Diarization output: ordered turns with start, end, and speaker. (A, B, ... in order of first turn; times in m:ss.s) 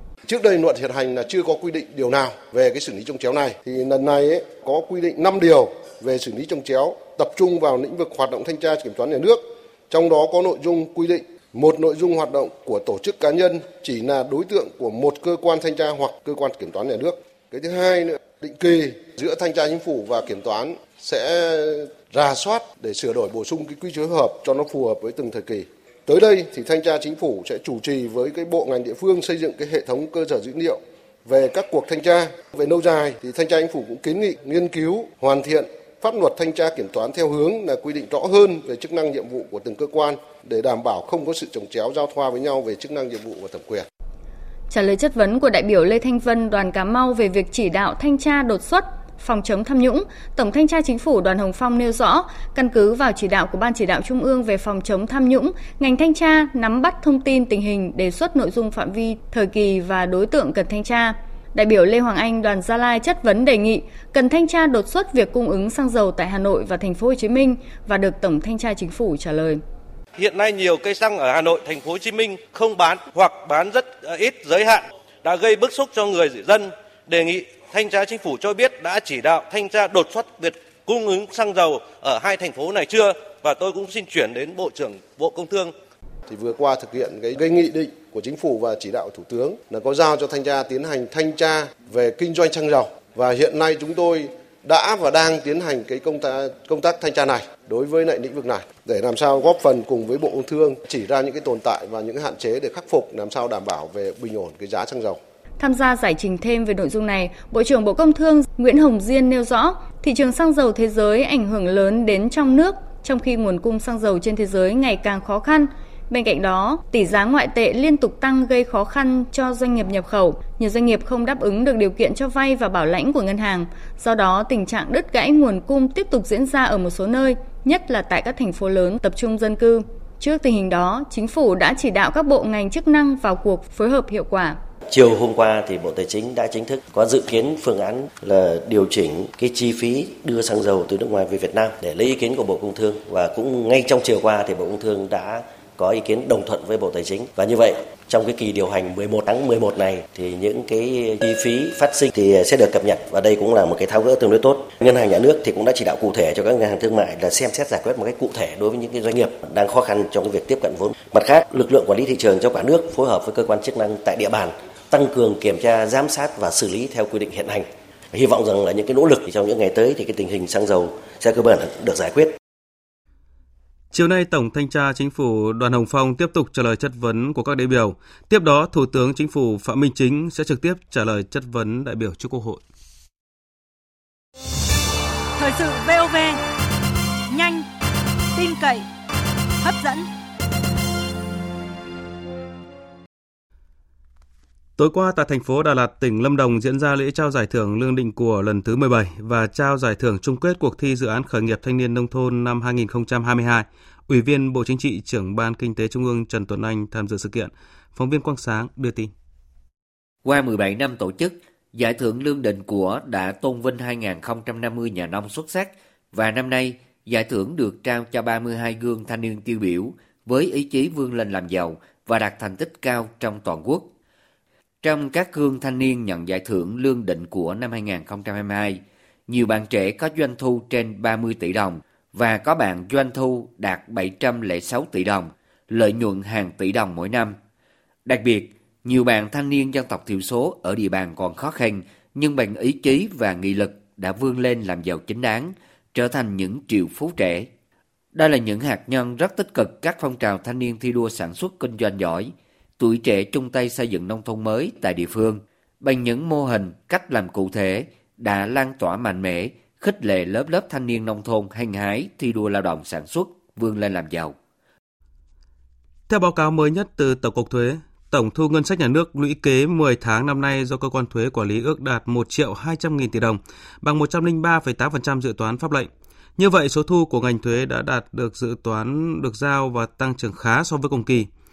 0:00.2-0:43.9 A
0:44.7-1:09.6 B
1:10.2-1:25.7 C
1:26.3-1:45.2 A
1:45.6-2:14.6 B
2:14.9-2:52.4 D
2:53.9-3:02.6 E
3:05.4-3:06.4 F
3:07.3-3:07.7 F
3:08.3-3:08.9 F
3:09.6-3:10.1 F
3:14.8-3:29.1 E
3:30.2-3:43.9 G
3:44.8-3:57.4 G
3:58.1-4:07.5 G
4:08.1-4:24.4 G
4:26.1-4:41.3 E